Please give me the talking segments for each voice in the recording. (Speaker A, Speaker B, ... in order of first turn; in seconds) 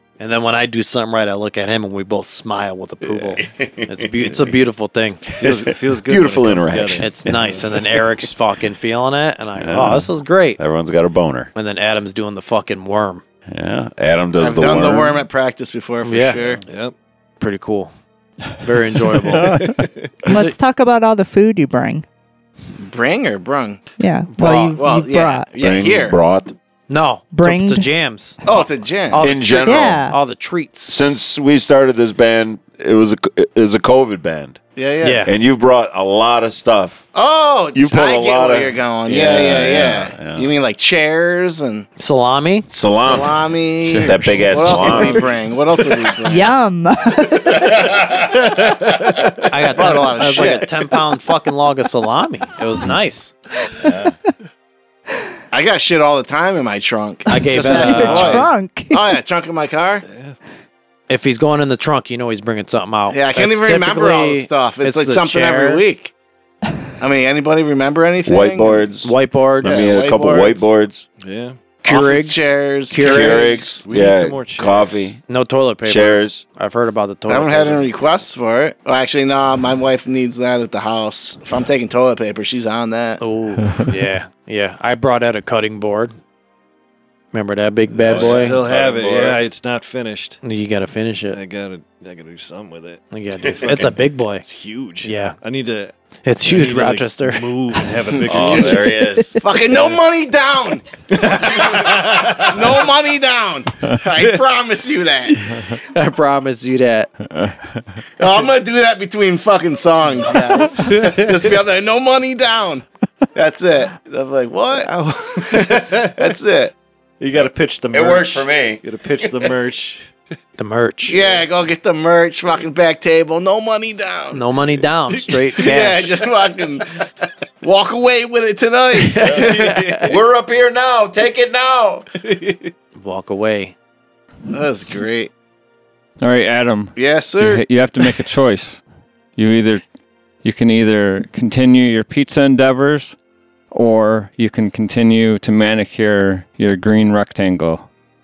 Speaker A: 0.2-5.2, 7.0-10.6, 11.5-13.2, 16.0-16.6, 17.4-17.9, 18.6-19.6, 20.2-20.6, 24.3-24.8, 26.9-28.6, 29.1-31.2, 35.0-35.3, 42.0-42.7, 49.5-53.3, 57.3-58.5, 61.1-65.8, 69.0-69.9, 71.8-73.5, 75.3-77.9, 83.2-86.1, 87.3-88.6, 90.4-91.4, 93.1-94.4, 95.0-95.4, 96.2-97.5, 105.6-107.1, 120.6-121.2, 124.3-126.2, 129.2-130.0, 133.0-133.7
Speaker B: 3.4-4.1, 5.4-7.4, 9.6-11.5, 13.5-15.2, 25.6-26.5, 29.2-30.1, 30.9-34.6, 35.2-37.1, 37.7-40.5, 42.7-45.4, 47.6-48.7, 53.8-54.1, 68.2-71.1, 73.0-75.2, 75.8-76.4, 88.1-89.4, 93.5-93.8, 98.3-99.4, 117.3-119.5, 129.2-132.1
Speaker C: 5.4-7.7, 16.7-16.9, 19.3-20.3, 60.1-60.4, 71.2-71.6, 73.0-75.1, 87.9-90.4, 91.3-95.9, 96.4-99.0, 99.7-100.0, 101.1-102.5, 110.9-111.3, 114.8-116.2, 117.2-120.1, 129.2-130.1
Speaker D: 14.4-16.6, 22.8-23.8, 24.4-26.2, 28.4-29.2, 34.8-35.2, 37.1-41.9, 43.0-46.5, 49.7-50.7, 55.5-60.0, 63.1-66.1, 67.0-68.9, 69.6-70.7, 71.8-73.8, 77.3-83.2, 99.4-105.4, 108.2-114.9, 115.4-116.7, 121.1-124.4, 125.6-126.9, 127.6-129.8, 134.5-135.3, 136.9-137.6
Speaker E: 19.4-19.7, 43.8-45.0, 107.3-107.7, 136.2-138.8, 139.4-139.8, 140.4-143.2, 143.7-147.9
Speaker F: 20.3-22.0, 24.0-25.5, 27.3-27.9, 29.6-30.2, 46.2-47.7, 57.3-59.1